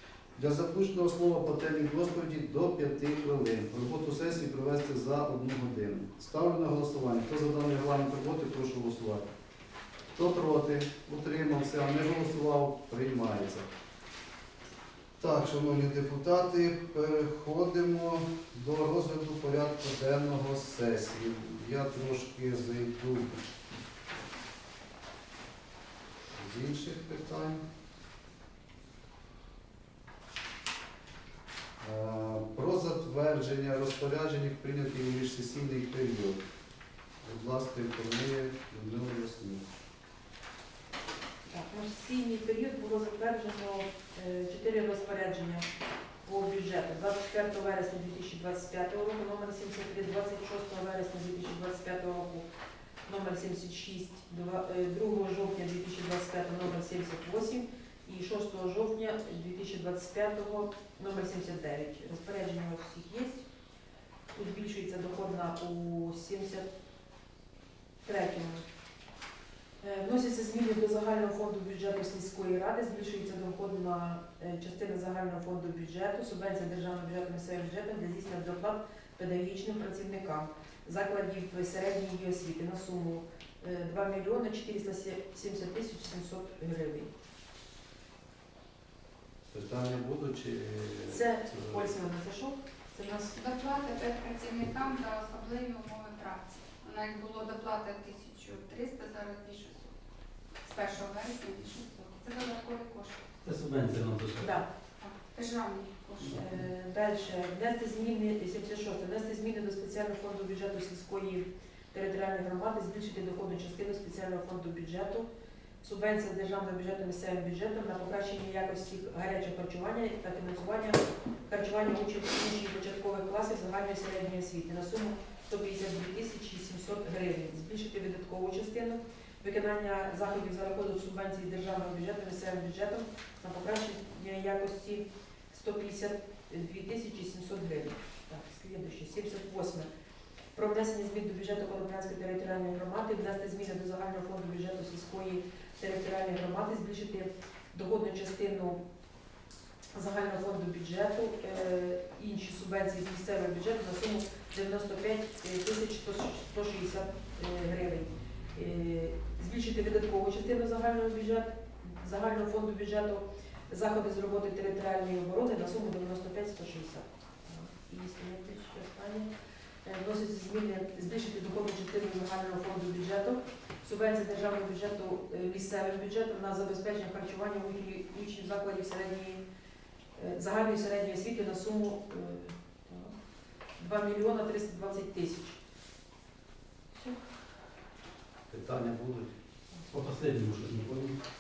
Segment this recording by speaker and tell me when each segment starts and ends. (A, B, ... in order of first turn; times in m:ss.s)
0:00.4-0:09.2 A
0:10.1-0:13.7 A
0:15.2-0:23.4 A
0:26.3-0:27.6 A
0:31.8-0:36.4 A
0:37.2-0:39.6 A
0:41.5-0:45.7 B
0:46.2-0:52.4 B
0:53.0-1:03.4 B
1:04.3-1:06.7 B
1:08.0-1:08.6 B
1:09.8-1:27.1 B
1:29.5-1:31.9 A
1:31.1-1:33.3 B
1:33.3-1:39.9 C
1:40.6-1:43.3 C
1:43.4-1:44.5 D
1:44.4-1:44.6 B
1:45.0-1:46.6 C
1:46.3-1:55.3 B
1:55.8-2:19.9 B
2:20.5-2:28.8 B
2:29.9-2:49.3 B
2:49.8-2:59.4 B
3:00.2-3:03.1 B
3:03.8-3:05.6 B
3:06.9-3:07.2 B
3:08.5-3:09.3 A
3:09.9-3:11.1 D